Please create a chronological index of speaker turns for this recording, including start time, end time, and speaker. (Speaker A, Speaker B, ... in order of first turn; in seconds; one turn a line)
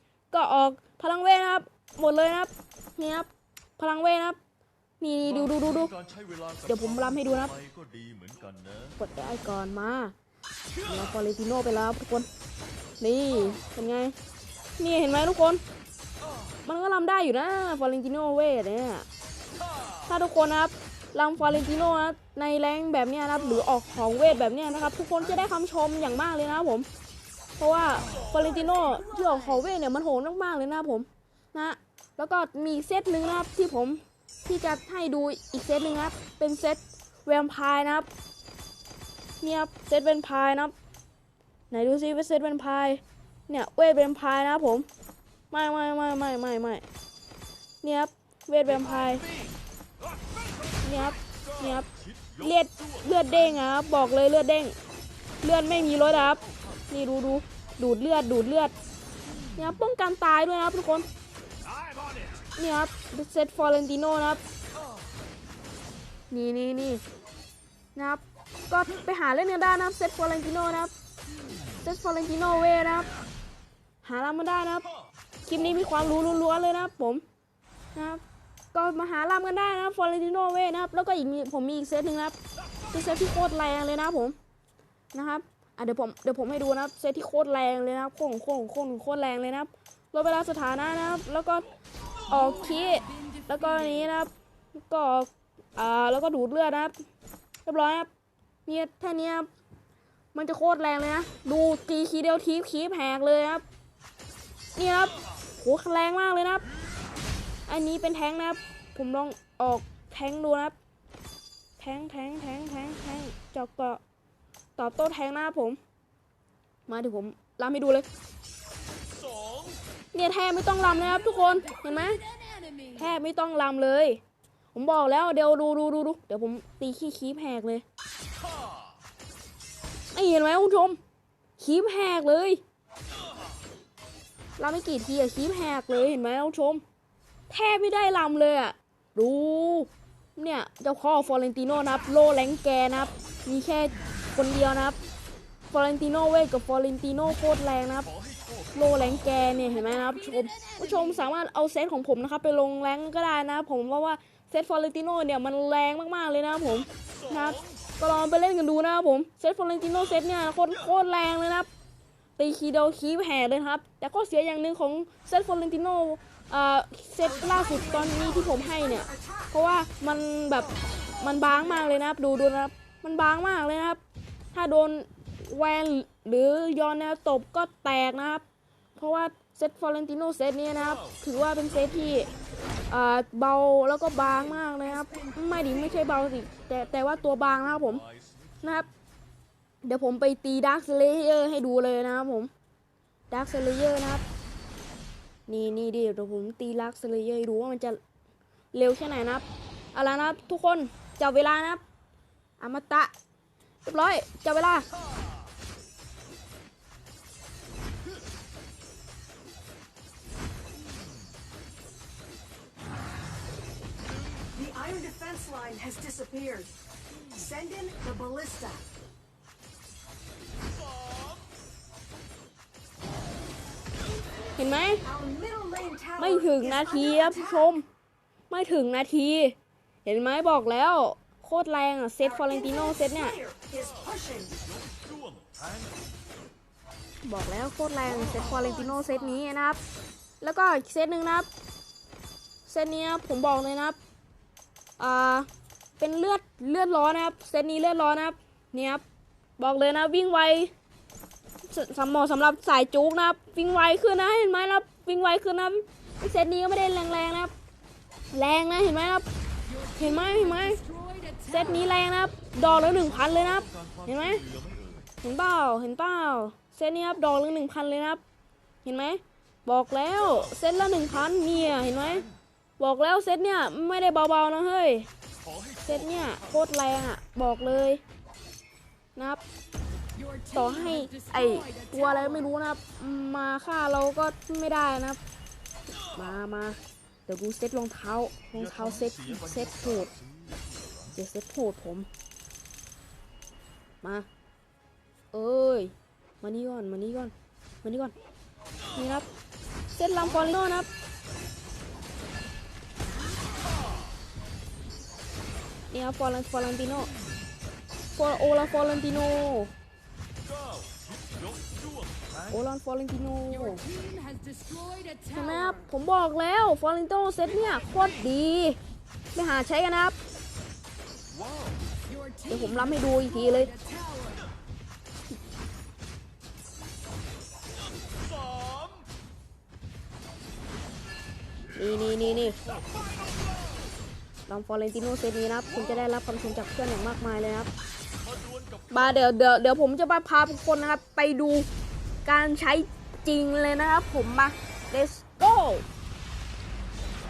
Speaker A: 0.3-4.4
Speaker A: 5.0-5.9
Speaker B: 5.5-9.0
Speaker A: 6.7-7.5
Speaker A: 9.0-10.1
Speaker A: 10.8-12.3
Speaker A: 13.0-14.1
Speaker A: 14.8-15.6
Speaker A: 16.6-19.1
Speaker A: 20.1-26.9
Speaker A: 27.6-38.1
Speaker A: 39.4-40.7
Speaker A: 41.7-44.9
Speaker A: 45.5-46.8
Speaker A: 47.8-49.3
Speaker A: 50.8-54.7
Speaker B: 51.2-52.8
Speaker A: 55.4-58.7
Speaker A: 59.6-61.1
Speaker A: 62.6-64.4
Speaker A: 66.3-67.0
Speaker A: 68.0-70.9
Speaker A: 71.8-73.1
Speaker A: 74.0-74.9
Speaker A: 75.5-77.2
Speaker A: 77.9-78.2
Speaker A: 78.7-82.4
Speaker A: 82.9-84.4
Speaker A: 85.1-91.7
Speaker A: 92.2-96.9
Speaker A: 97.7-98.1
Speaker A: 98.7-99.5
Speaker A: 100.3-103.6
Speaker A: 104.8-106.7
Speaker A: 107.7-110.8
Speaker A: 111.8-114.0
Speaker A: 114.8-115.8
Speaker A: 116.9-118.1
Speaker B: 119.2-119.8
Speaker A: 120.1-122.2
Speaker C: 122.2-123.0
Speaker A: 122.9-124.2
Speaker A: 124.7-127.8
Speaker B: 128.6-128.8
Speaker A: 130.1-131.0
Speaker A: 131.6-132.6
Speaker A: 134.6-136.8
Speaker A: 137.5-145.0
Speaker A: 145.7-148.1
Speaker B: 148.2-148.8
Speaker A: 148.8-161.7
Speaker B: 157.5-157.8
Speaker A: 162.4-174.0
Speaker D: 167.8-168.3
Speaker A: 174.5-178.4
Speaker A: 179.0-182.3
Speaker A: 182.9-188.0
Speaker B: 186.5-188.6
Speaker A: 188.6-188.9
Speaker A: 189.8-192.5
Speaker A: 193.3-194.2
Speaker A: 195.5-198.0
Speaker A: 198.7-201.8
Speaker A: 202.6-203.1
Speaker A: 203.8-204.9
Speaker D: 214.5-216.7
Speaker D: 217.4-218.8
Speaker B: 220.9-221.4
Speaker A: 224.6-225.1
Speaker D: 225.1-227.0
Speaker A: 226.2-227.9
Speaker A: 228.5-233.4
Speaker D: 232.7-234.6
Speaker B: 234.6-235.9
Speaker A: 237.2-239.8
Speaker A: 240.4-241.5
Speaker A: 242.7-244.0
Speaker A: 245.0-245.5
Speaker A: 246.0-249.0
Speaker A: 249.6-250.7
Speaker A: 251.7-257.5
Speaker A: 258.3-259.3
Speaker A: 259.9-260.8
Speaker C: 260.8-261.4
Speaker A: 261.4-264.4
Speaker B: 262.9-265.1
Speaker A: 265.2-268.2
Speaker A: 268.9-272.2
Speaker B: 271.3-272.3
Speaker A: 272.8-275.1
Speaker B: 275.4-276.4
Speaker A: 275.9-278.0
Speaker A: 279.2-279.4
Speaker C: 280.2-281.9
Speaker A: 280.5-285.2
Speaker A: 286.0-290.1
Speaker B: 288.6-291.1
Speaker A: 291.1-292.1
Speaker A: 294.0-294.3
Speaker A: 295.3-297.3
Speaker A: 297.8-298.1
Speaker A: 298.9-299.3
Speaker A: 299.9-300.9
Speaker A: 305.9-307.1
Speaker A: 308.1-309.7
Speaker B: 310.4-312.6
Speaker A: 312.5-313.9
Speaker C: 313.8-315.4
Speaker A: 315.3-318.8
Speaker A: 319.3-320.2
Speaker B: 321.3-321.8
Speaker C: 322.1-322.5
Speaker A: 322.5-323.8
Speaker C: 323.7-324.4
Speaker B: 328.3-329.1
Speaker A: 331.7-332.6
Speaker B: 332.6-333.9
Speaker A: 334.5-337.7
Speaker B: 338.3-339.0
Speaker A: 338.9-341.7
Speaker A: 342.2-345.9